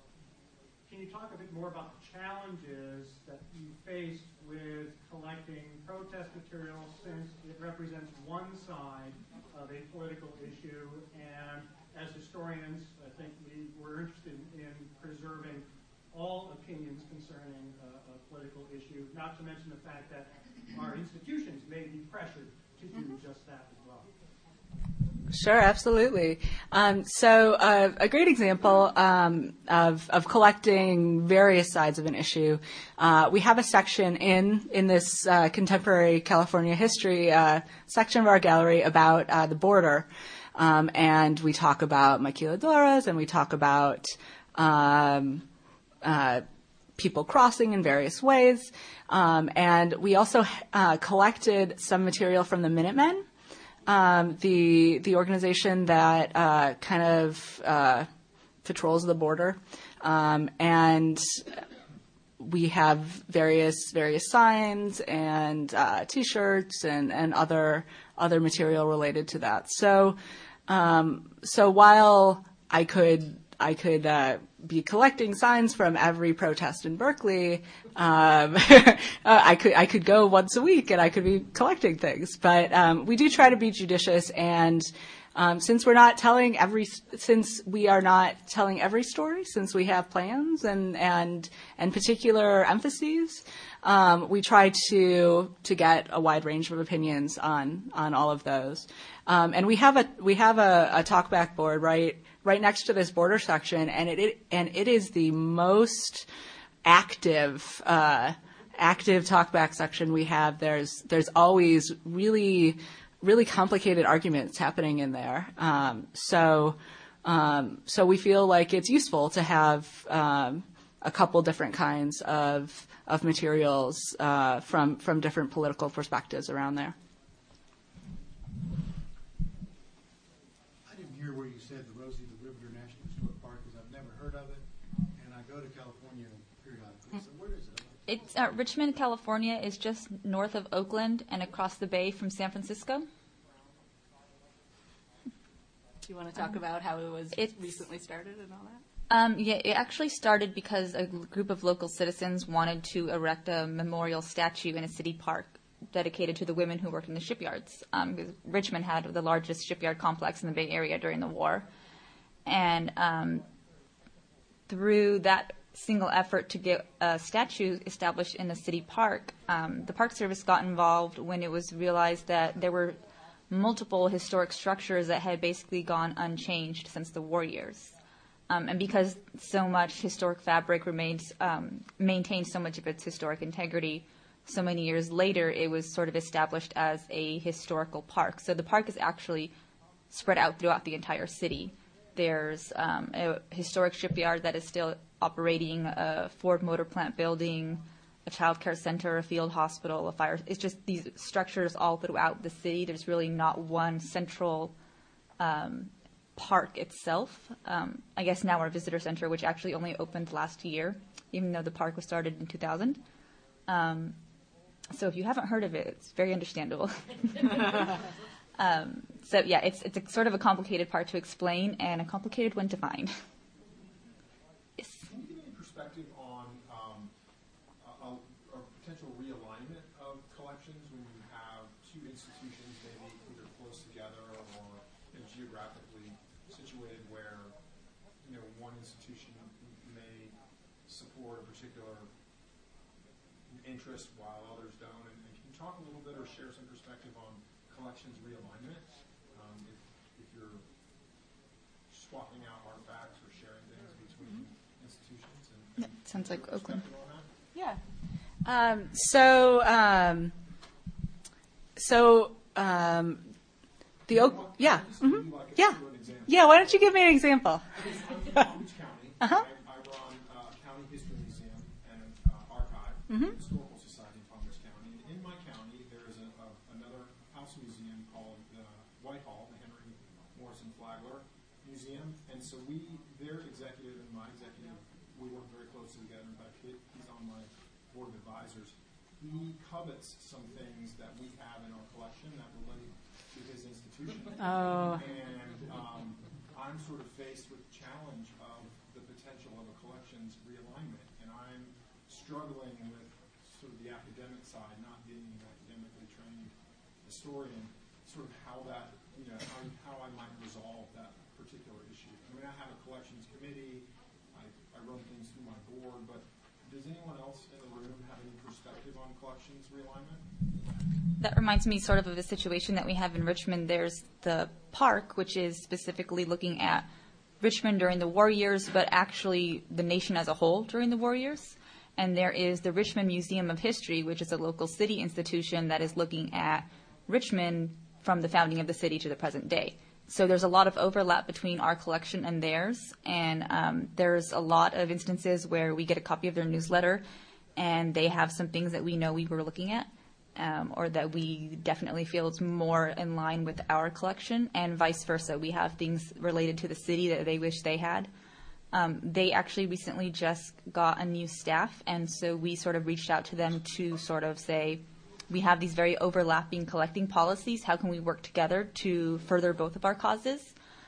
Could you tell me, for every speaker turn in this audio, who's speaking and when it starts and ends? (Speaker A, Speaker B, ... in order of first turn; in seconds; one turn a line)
Speaker A: 0.8-24.1
Speaker B: 25.3-45.5
Speaker B: 46.0-46.4
Speaker B: 47.0-53.3
Speaker B: 53.9-58.1
Speaker B: 58.6-61.6
Speaker B: 62.4-70.2
Speaker B: 70.7-106.3
Speaker B: 106.8-126.9
Speaker C: 130.9-138.0
Speaker D: 138.1-143.1
Speaker B: 146.1-148.8
Speaker D: 149.1-161.7
Speaker D: 162.5-163.5
Speaker D: 164.7-173.0
Speaker D: 173.5-177.9
Speaker D: 178.5-189.5
Speaker D: 190.1-204.8
Speaker D: 205.4-213.0
Speaker D: 213.7-214.2
Speaker D: 214.9-218.0
Speaker D: 218.6-223.2
Speaker D: 224.8-225.1
Speaker E: 225.0-227.1
Speaker E: 227.8-237.6
Speaker E: 238.2-242.1
Speaker E: 243.5-250.6
Speaker E: 251.9-257.3
Speaker D: 255.8-256.8
Speaker B: 257.5-257.8
Speaker B: 258.4-260.4
Speaker B: 261.8-263.3
Speaker E: 264.1-267.1
Speaker B: 264.1-267.6
Speaker E: 267.8-320.2
Speaker B: 294.4-295.0
Speaker D: 321.2-326.9
Speaker D: 327.4-347.0
Speaker D: 347.6-358.1
Speaker D: 358.7-370.5